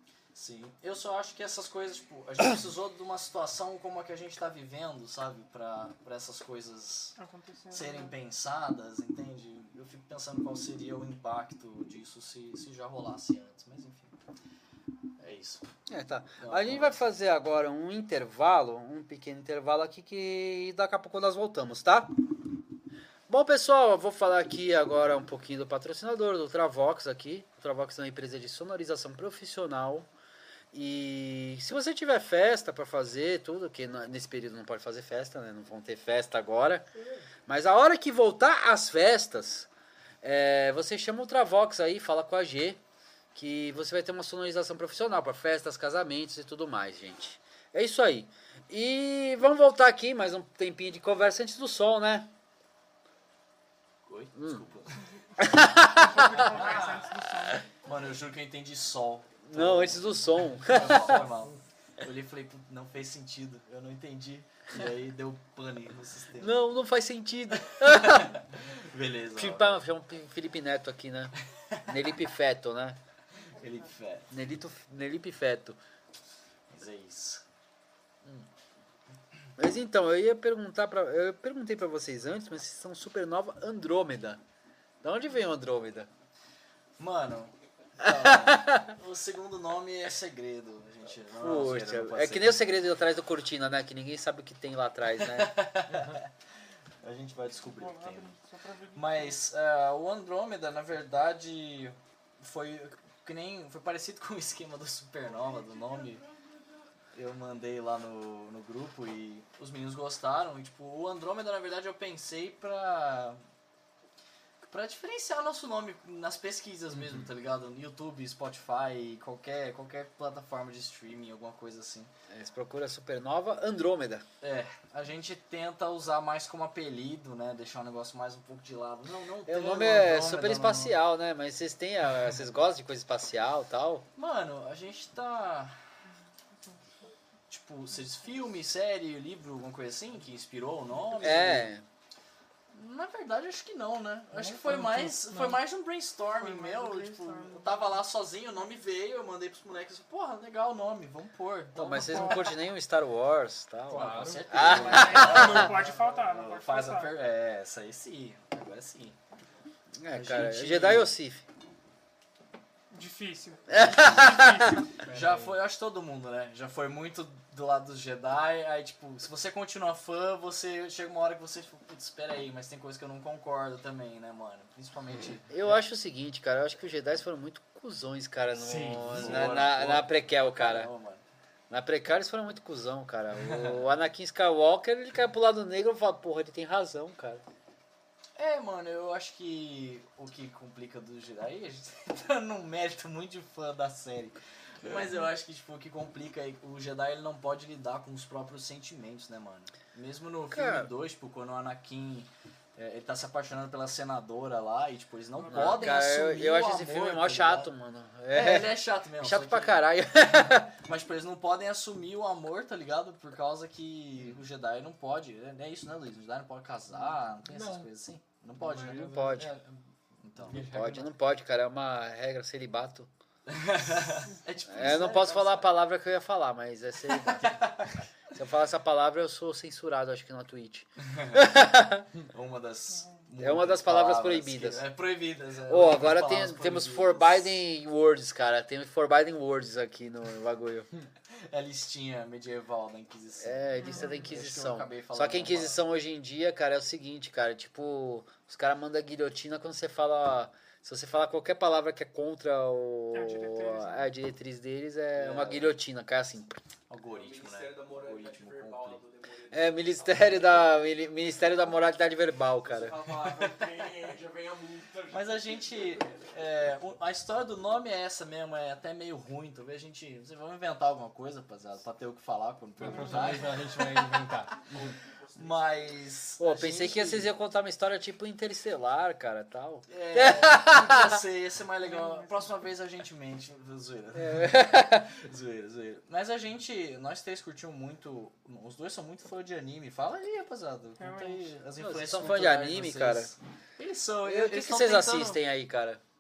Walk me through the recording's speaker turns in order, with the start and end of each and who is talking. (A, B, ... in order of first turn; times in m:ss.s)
0:00.3-0:07.2 A
0:07.2-0:08.1 B
0:07.7-0:14.2 A
0:15.2-0:15.7 A
0:15.9-0:22.1 C
0:16.4-0:17.0 A
0:23.3-0:30.1 C
0:30.7-0:36.9 C
0:37.5-0:39.7 C
0:40.2-0:42.8 C
0:43.4-0:52.3 C
0:54.0-0:55.1 A
0:54.4-0:54.6 C
0:55.4-0:56.5 C
0:55.8-0:57.7 B
0:56.3-1:06.5 A
0:56.4-0:57.1 D
0:59.4-1:01.2 C
1:01.0-1:01.5 D
1:06.4-1:08.4 C
1:07.5-1:09.8 A
1:09.4-1:13.0 C
1:13.5-1:14.3 A
1:14.3-1:15.8 C
1:16.7-1:17.5 A
1:19.6-1:24.4 C
1:25.0-1:26.1 C
1:27.0-1:32.6 A
1:28.0-1:28.9 C
1:31.4-1:35.7 C
1:35.2-1:36.3 A
1:37.0-1:38.4 A
1:37.7-1:39.4 B
1:38.9-1:46.2 A
1:47.1-1:53.4 A
1:54.6-2:02.1 A
2:02.3-2:04.3 C
2:04.4-2:11.0 A
2:09.5-2:14.1 C
2:14.2-2:15.8 A
2:17.5-2:21.7 A
2:21.2-2:21.8 C
2:22.7-2:32.5 A
2:24.4-2:25.2 D
2:26.4-2:27.9 B
2:31.8-2:35.7 C
2:32.0-2:32.5 B
2:33.9-2:34.9 D
2:33.9-2:39.2 A
2:34.7-2:37.1 B
2:35.6-2:35.9 D
2:40.0-2:41.5 C
2:40.1-2:41.1 A
2:42.9-2:45.0 B
2:43.7-2:44.8 C
2:45.0-2:45.6 D
2:45.0-2:55.8 A
2:55.5-3:00.9 C
2:58.5-2:59.6 D
2:59.1-3:01.2 A
3:01.7-3:07.4 C
3:03.4-3:03.8 A
3:08.4-3:27.7 A
3:20.5-3:20.9 C
3:25.4-3:25.9 B
3:25.5-3:30.7 C
3:28.3-3:39.2 A
3:37.5-3:37.9 D
3:38.6-3:41.1 D
3:38.6-3:39.5 C
3:40.2-3:40.7 A
3:40.4-3:43.1 C
3:43.5-3:45.7 A
3:44.7-3:47.6 C
3:47.1-3:47.9 A
3:48.3-3:52.1 C
3:51.0-3:51.5 A
3:52.3-3:57.6 A
3:52.9-3:53.2 B
3:53.4-3:54.8 C
3:55.7-4:00.9 C
4:01.3-4:05.8 A
4:03.4-4:16.6 C
4:03.8-4:04.3 B
4:13.1-4:14.1 B
4:15.2-4:15.8 A
4:16.9-4:19.0 A
4:17.1-4:20.7 E
4:19.5-4:23.0 C
4:22.7-4:26.0 E
4:23.3-4:23.9 A
4:25.1-4:34.2 A
4:32.8-4:35.0 D
4:32.8-4:33.5 B
4:34.9-4:35.6 E
4:35.4-4:37.3 A
4:36.4-4:41.2 C
4:39.9-4:55.4 A
4:41.8-4:42.5 B
4:44.2-4:45.1 C
4:51.0-4:51.6 B
4:51.8-4:53.3 C
4:54.2-4:56.0 C